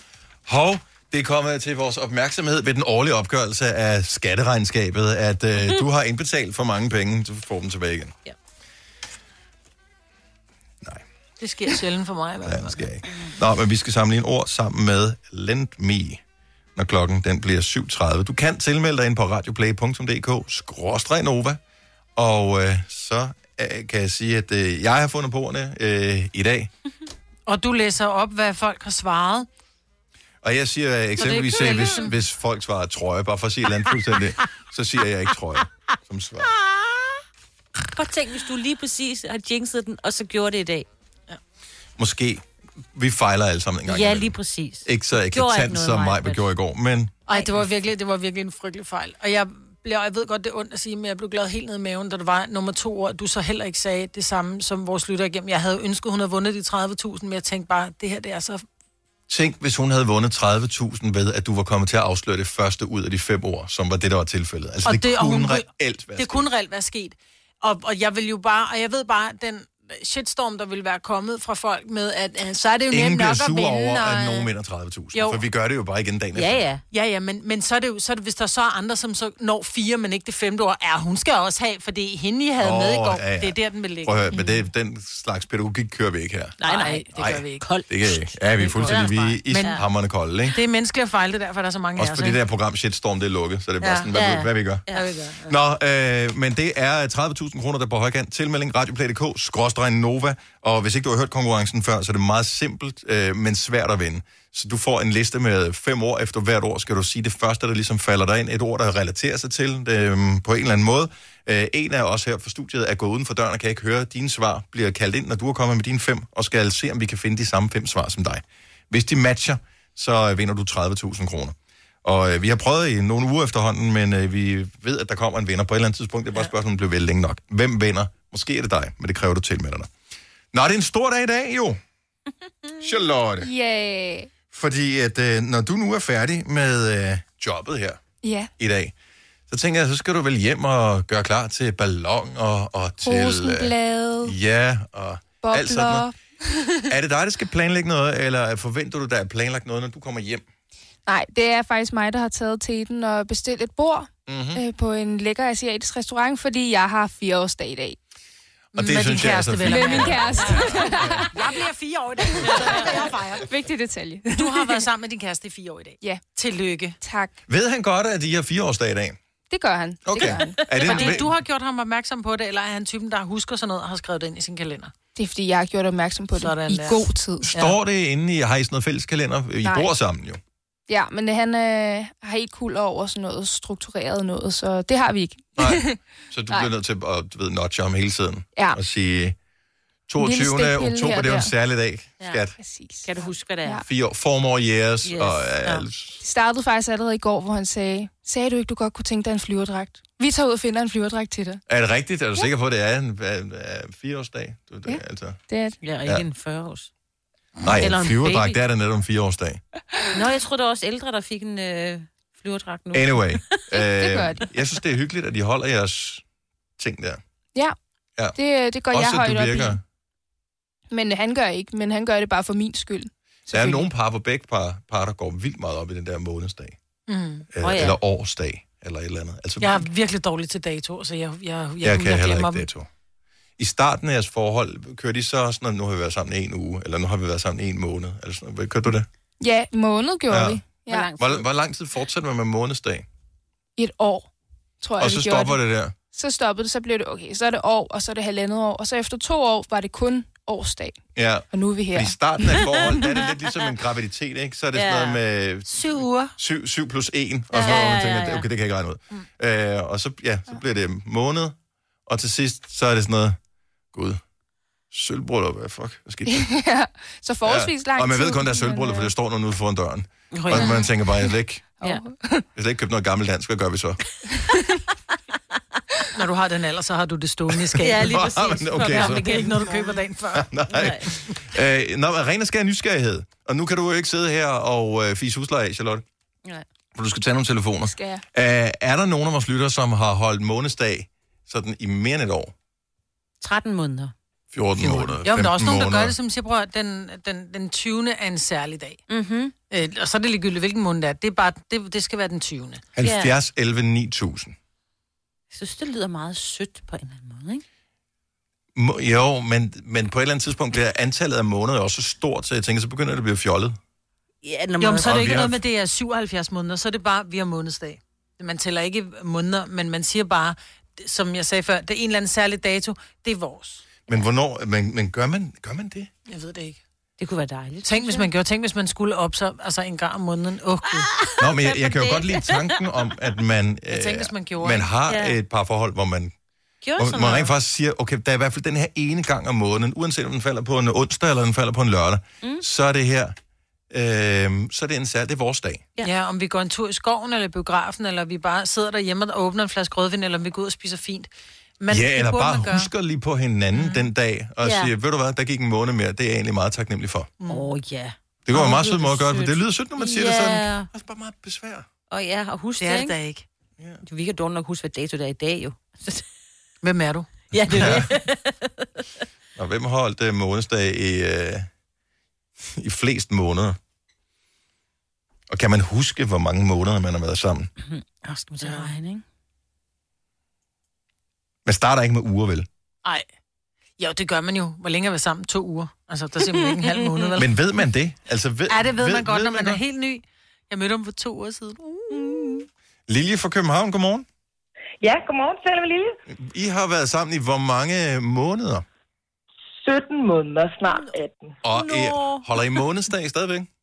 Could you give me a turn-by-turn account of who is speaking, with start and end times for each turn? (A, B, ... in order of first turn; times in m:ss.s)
0:00.5-0:08.2 A
0:11.4-0:12.8 B
0:12.4-0:16.2 A
0:16.8-0:21.6 A
0:22.2-0:26.7 A
0:27.5-0:29.5 B
0:30.4-0:36.5 A
0:31.2-0:32.1 B
0:37.9-0:40.9 C
0:42.0-0:47.1 A
0:43.9-0:46.5 C
0:47.3-0:58.6 B
0:59.3-1:06.5 A
1:04.8-1:14.5 B
1:12.9-1:16.7 A
1:15.1-1:15.4 B
1:16.4-1:16.8 C
1:16.9-1:24.4 B
1:22.6-1:26.6 A
1:26.6-1:27.0 C
1:26.6-1:27.7 B
1:27.2-1:30.6 A
1:27.6-1:28.2 C
1:28.6-1:29.8 B
1:28.8-1:29.8 C
1:30.5-1:32.4 B
1:32.0-1:34.8 A
1:33.8-1:34.1 B
1:34.1-1:35.1 C
1:34.9-1:35.6 B
1:35.5-2:09.9 A
2:10.5-2:11.8 A
2:12.8-2:13.5 A
2:13.4-2:14.3 D
2:14.5-2:18.0 A
2:18.2-2:18.5 D
2:18.6-2:18.9 A
2:19.5-2:26.1 A
2:23.0-2:24.4 D
2:25.4-2:26.1 D
2:26.9-2:30.4 A
2:31.1-2:38.0 D
2:34.3-2:34.6 A
2:38.7-2:41.2 A
2:38.8-2:43.5 B
2:39.6-2:41.6 D
2:42.2-2:44.8 D
2:44.3-2:47.0 B
2:47.0-2:47.4 D
2:47.5-2:49.2 A
2:49.5-2:51.2 D
2:50.0-2:51.3 A
2:50.8-2:54.9 B
2:55.2-2:57.5 D
2:56.4-2:57.8 B
2:57.4-3:00.4 A
2:59.6-2:59.9 D
3:00.9-3:06.0 D
3:05.6-3:09.4 A
3:10.1-3:12.5 A
3:10.2-3:11.5 D
3:12.6-3:13.8 D
3:13.0-3:13.8 C
3:13.9-3:16.2 A
3:15.0-3:15.8 C
3:16.2-3:21.6 D
3:21.7-3:25.4 A
3:24.9-3:25.8 D
3:25.8-3:26.9 C
3:27.6-3:29.6 A
3:27.8-3:28.6 C
3:30.1-3:33.6 C
3:32.9-3:36.2 A
3:33.9-3:34.4 D
3:36.8-3:37.2 A
3:38.4-3:39.8 D
3:38.9-3:39.8 A
3:40.9-3:43.9 D
3:43.5-3:46.8 A
3:47.1-3:47.5 B
3:47.5-3:49.8 A
3:47.6-3:48.0 C
3:49.6-3:52.7 B
3:51.8-3:52.9 A
3:53.6-3:59.1 A
3:59.4-4:01.1 D
4:00.3-4:00.6 A
4:00.9-4:01.4 C
4:01.2-4:03.1 A
4:03.8-4:04.3 D
4:04.8-4:11.0 D
4:05.0-4:06.0 A
4:11.2-4:23.4 A
4:11.5-4:12.2 D
4:14.7-4:15.2 C
4:15.7-4:16.4 B
4:17.5-4:18.5 C
4:23.9-4:24.2 A
4:24.9-4:26.5 A
4:26.3-4:29.1 D
4:27.4-4:31.7 A
4:30.3-4:30.8 C
4:30.5-4:30.8 B
4:31.8-4:32.4 D
4:32.6-4:34.0 A
4:36.1-4:40.9 B
4:37.8-4:40.0 C
4:38.0-4:39.7 A
4:40.3-4:46.0 A
4:40.7-4:41.1 C
4:47.0-4:52.5 A
4:47.9-4:48.2 D
4:53.4-4:54.1 C
4:54.5-4:56.2 A
4:54.8-4:59.0 B
4:59.1-4:59.5 C
4:59.7-5:02.8 B
5:03.0-5:04.6 A
5:03.0-5:03.4 C
5:05.5-5:07.6 C
5:08.8-5:13.8 A
5:14.4-5:15.3 C
5:14.8-5:23.8 B
5:15.0-5:15.6 A
5:24.1-5:26.1 A
5:26.3-5:26.8 B
5:27.2-5:28.3 C
5:27.8-5:31.1 B
5:31.1-5:32.9 C
5:31.4-5:36.3 A
5:33.9-5:34.9 B
5:35.1-5:35.4 C
5:36.8-5:37.5 C
5:37.0-5:43.4 A
5:43.9-5:45.9 A
5:46.0-5:52.9 B
5:51.9-5:57.3 A
5:53.8-5:54.0 B
5:54.6-5:54.9 C
5:57.4-5:57.7 B
5:57.5-6:00.9 C
5:58.5-6:01.9 A
6:02.1-6:03.2 C
6:02.8-6:03.4 B
6:04.0-6:06.2 C
6:06.8-6:08.1 B
6:07.5-6:08.8 C
6:07.8-6:08.1 A
6:09.6-6:11.7 A
6:12.8-6:13.8 A
6:15.5-6:17.7 A
6:17.8-6:19.2 C
6:18.6-6:18.9 B
6:21.6-6:22.7 A
6:24.0-6:27.5 B
6:27.4-6:29.8 A
6:28.7-6:32.6 B
6:33.1-6:34.3 A
6:35.0-6:36.2 E
6:36.3-6:38.8 A
6:39.8-6:41.6 E
6:41.6-6:43.7 A
6:41.7-6:42.4 C